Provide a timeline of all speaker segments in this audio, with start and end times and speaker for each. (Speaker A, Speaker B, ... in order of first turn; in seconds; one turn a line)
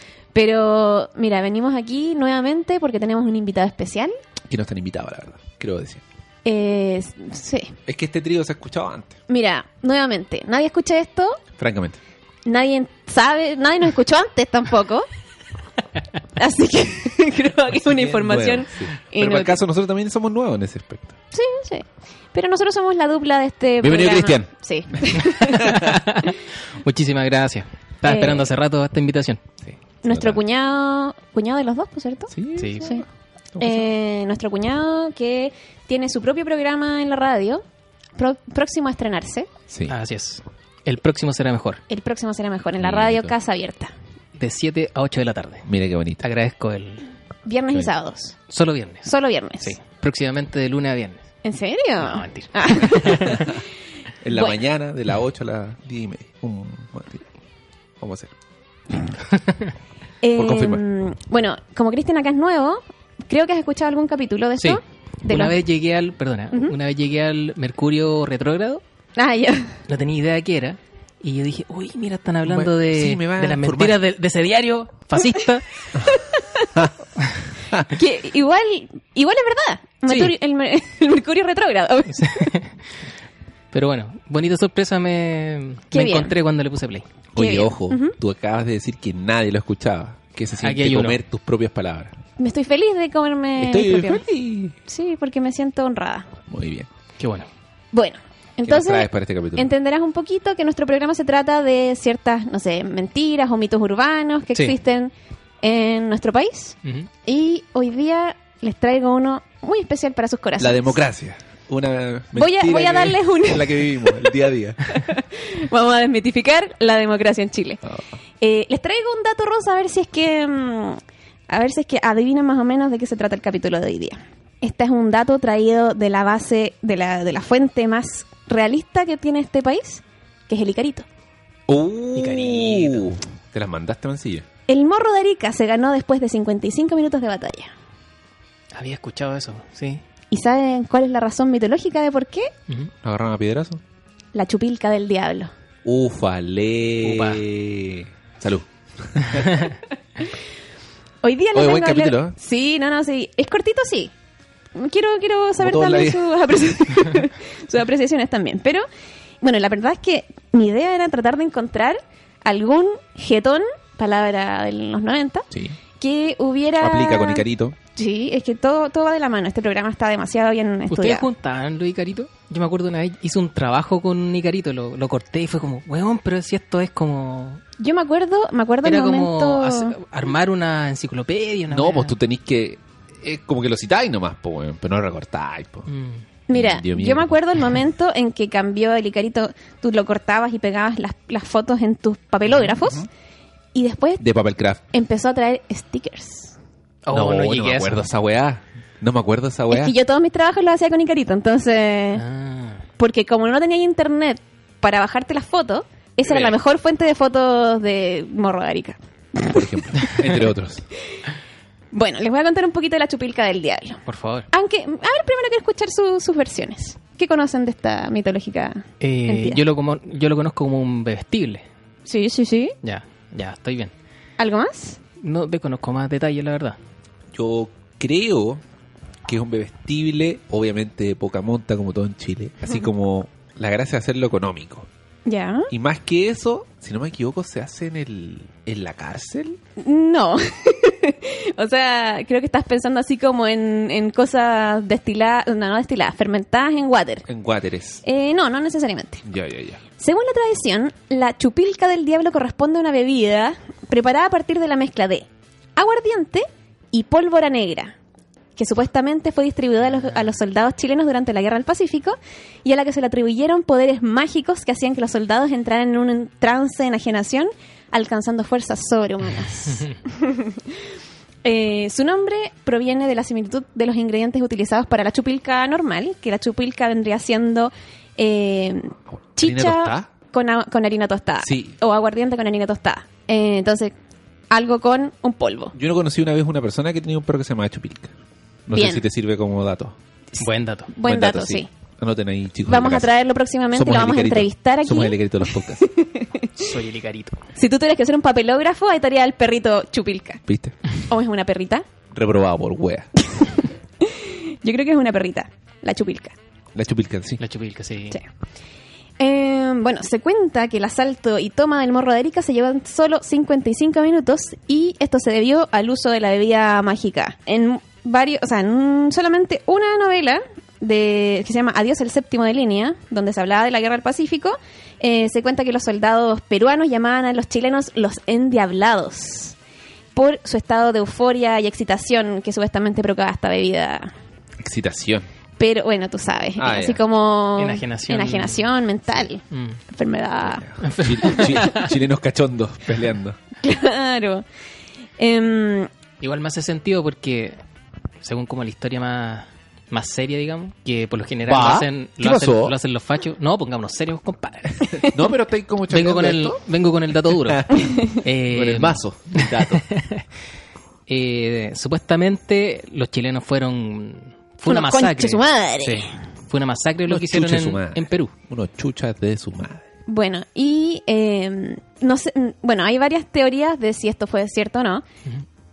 Speaker A: 0.3-4.1
Speaker B: 4.5-6.0
Speaker A: 6.5-7.8
Speaker B: 7.9-9.2
Speaker A: 9.3-11.4
Speaker B: 11.6-12.0
Speaker A: 12.5-15.1
Speaker A: 16.4-19.6
Speaker B: 17.7-21.2
Speaker A: 21.3-25.9
Speaker B: 23.8-26.0
Speaker C: 25.4-29.4
Speaker A: 28.1-28.5
Speaker B: 29.6-30.4
Speaker A: 30.0-33.0
Speaker B: 32.3-33.9
Speaker C: 32.6-32.9
Speaker A: 33.6-37.6
Speaker A: 38.2-39.5
Speaker B: 39.7-40.0
Speaker C: 39.9-41.8
Speaker A: 41.9-43.9
Speaker B: 42.8-43.4
Speaker C: 44.4-45.7
Speaker B: 45.7-46.2
Speaker C: 46.2-47.0
Speaker A: 47.5-48.4
Speaker C: 48.5-51.3
Speaker A: 49.0-49.8
Speaker A: 51.5-53.6
Speaker C: 52.0-53.5
Speaker B: 53.1-53.6
Speaker B: 54.2-57.3
Speaker A: 54.3-54.6
Speaker B: 58.0-58.3
Speaker C: 59.3-59.7
Speaker A: 60.2-65.6
Speaker B: 60.4-60.8
Speaker C: 64.6-68.8
Speaker A: 69.2-69.8
Speaker C: 69.9-75.7
Speaker B: 72.5-74.0
Speaker A: 76.0-76.8
Speaker B: 77.5-77.9
Speaker A: 77.9-82.5
Speaker B: 80.1-80.3
Speaker C: 82.1-82.8
Speaker C: 83.7-87.1
Speaker A: 85.9-86.3
Speaker B: 87.3-92.1
Speaker A: 87.4-88.2
Speaker C: 90.6-91.2
Speaker A: 92.4-94.2
Speaker B: 93.6-94.8
Speaker A: 94.9-96.3
Speaker B: 96.5-96.9
Speaker C: 97.2-97.5
Speaker A: 97.9-111.0
Speaker B: 98.7-99.7
Speaker B: 110.6-114.9
Speaker A: 112.4-114.3
Speaker A: 114.9-117.8
Speaker A: 118.4-131.1
Speaker B: 131.7-134.5
Speaker C: 132.2-133.1
Speaker A: 134.7-137.7
Speaker C: 138.7-140.0
Speaker A: 140.3-142.5
Speaker B: 143.0-143.8
Speaker A: 144.3-145.5
Speaker B: 145.8-149.7
Speaker C: 147.0-147.4
Speaker C: 149.3-149.7
Speaker A: 151.2-154.1
Speaker B: 151.5-152.3
Speaker A: 154.8-158.8
Speaker B: 155.6-156.3
Speaker A: 159.4-165.5
Speaker B: 165.5-165.8
Speaker A: 166.0-171.3
Speaker B: 166.8-167.8
Speaker C: 170.9-177.6
Speaker A: 177.8-180.0
Speaker C: 178.8-182.1
Speaker B: 181.7-185.9
Speaker C: 185.9-186.2
Speaker A: 186.5-193.1
Speaker B: 186.5-187.4
Speaker A: 193.7-194.2
Speaker B: 194.2-194.8
Speaker A: 194.9-196.6
Speaker C: 197.0-198.1
Speaker B: 197.1-199.9
Speaker A: 199.7-202.2
Speaker C: 202.2-202.8
Speaker A: 203.0-209.9
Speaker C: 206.3-206.6
Speaker B: 209.5-210.9
Speaker A: 211.9-219.6
Speaker C: 214.1-214.5
Speaker C: 219.0-221.7
Speaker A: 222.1-222.7
Speaker C: 222.8-223.9
Speaker A: 224.4-225.0
Speaker C: 225.2-226.8
Speaker B: 227.3-228.6
Speaker B: 229.3-234.9
Speaker A: 235.3-235.7
Speaker B: 235.7-239.6
Speaker A: 239.8-247.3
Speaker B: 247.3-248.0
Speaker A: 248.0-249.2
Speaker B: 249.2-249.8
Speaker A: 250.0-255.3
Speaker A: 255.8-258.0
Speaker A: 258.6-270.8
Speaker C: 259.9-260.3
Speaker C: 269.7-269.9
Speaker A: 271.4-283.9
Speaker B: 279.4-280.1
Speaker B: 281.4-281.8
Speaker A: 284.5-285.8
Speaker B: 285.8-288.1
Speaker B: 288.7-290.0
Speaker A: 288.7-289.1
Speaker C: 290.4-290.9
Speaker A: 290.9-291.7
Speaker B: 291.0-293.1
Speaker A: 292.7-296.7
Speaker B: 293.7-295.8
Speaker C: 296.6-297.4
Speaker A: 297.6-300.4
Speaker B: 300.5-300.8
Speaker A: 301.1-301.9
Speaker B: 302.1-303.1
Speaker A: 303.2-306.4
Speaker B: 306.8-307.4
Speaker C: 307.4-308.2
Speaker A: 309.2-329.6
Speaker A: 330.1-334.1
Speaker B: 334.6-335.3
Speaker A: 335.6-340.7
Speaker B: 336.6-337.0
Speaker C: 337.6-338.7
Speaker C: 339.5-339.8
Speaker B: 340.4-343.4
Speaker C: 340.8-341.9
Speaker A: 343.6-344.4
Speaker A: 345.2-345.9
Speaker C: 346.2-347.6
Speaker C: 348.2-355.2
Speaker B: 351.5-352.8
Speaker B: 354.9-356.6
Speaker C: 355.9-360.2
Speaker B: 357.3-359.9
Speaker A: 357.8-358.2
Speaker C: 361.1-368.3
Speaker A: 364.7-366.2
Speaker B: 367.1-369.9
Speaker A: 370.1-375.0